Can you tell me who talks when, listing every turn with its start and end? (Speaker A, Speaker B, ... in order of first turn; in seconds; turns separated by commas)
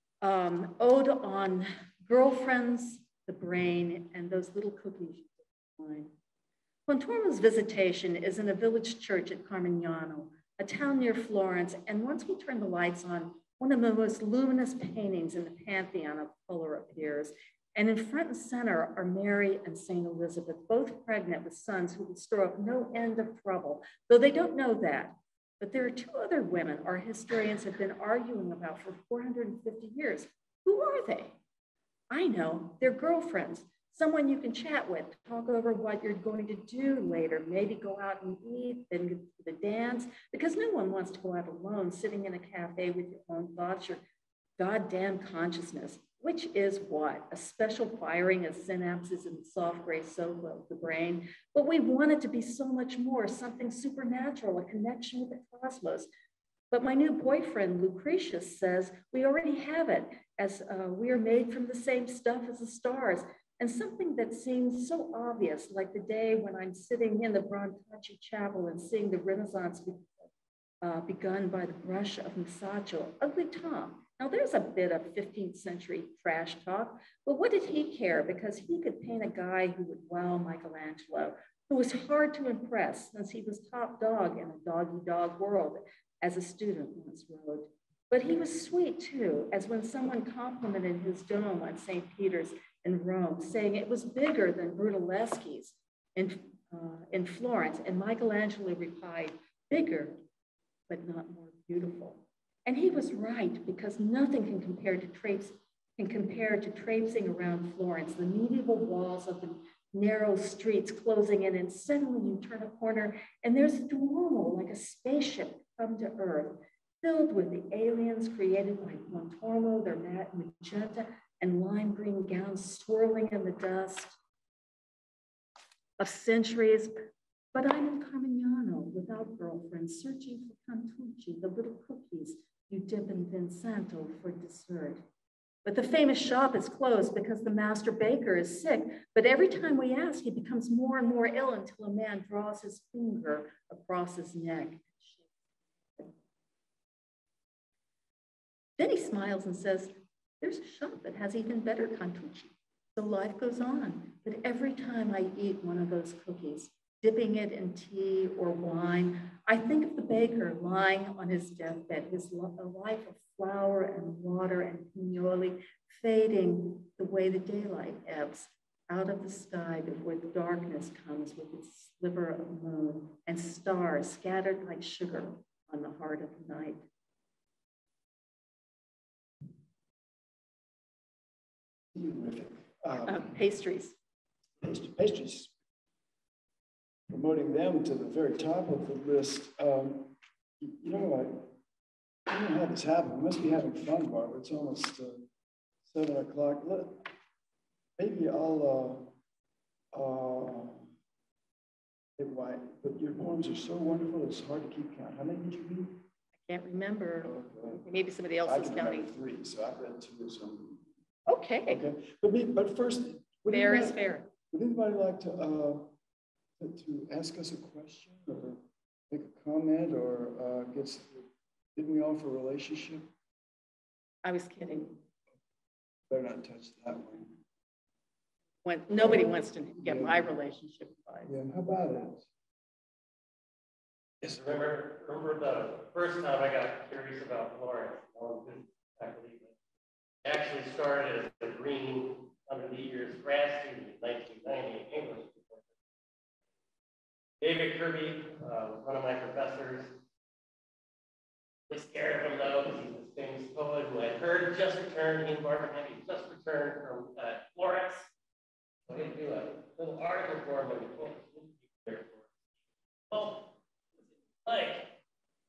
Speaker A: 0.2-6.1, Speaker A: 6.9-31.4, Speaker A: 32.1-44.0, Speaker A: 44.6-56.1, Speaker A: 56.7-70.1, Speaker A: 70.8-100.2, Speaker A: 100.9-124.2, Speaker A: 126.0-126.9, Speaker A: 127.5-135.0, Speaker A: 135.6-145.2, Speaker A: 148.8-176.8, Speaker B: 181.9-183.3, Speaker A: 183.0-183.9, Speaker B: 184.6-185.5, Speaker B: 187.1-191.5, Speaker B: 192.3-195.3, Speaker B: 195.8-197.1, Speaker B: 198.0-199.1, Speaker B: 199.9-200.9, Speaker B: 202.2-206.0, Speaker A: 206.5-209.1, Speaker B: 207.2-207.8, Speaker B: 208.4-210.8, Speaker A: 211.3-211.8, Speaker B: 211.7-215.9, Speaker A: 213.5-214.3, Speaker B: 216.6-223.1, Speaker A: 224.2-225.0, Speaker B: 226.1-227.4, Speaker A: 228.6-231.3, Speaker B: 229.0-230.3, Speaker B: 231.2-232.2, Speaker C: 234.2-239.5, Speaker C: 240.2-245.6, Speaker C: 247.4-250.0, Speaker C: 251.7-258.1, Speaker C: 258.9-262.3, Speaker C: 263.1-263.5, Speaker C: 264.4-264.9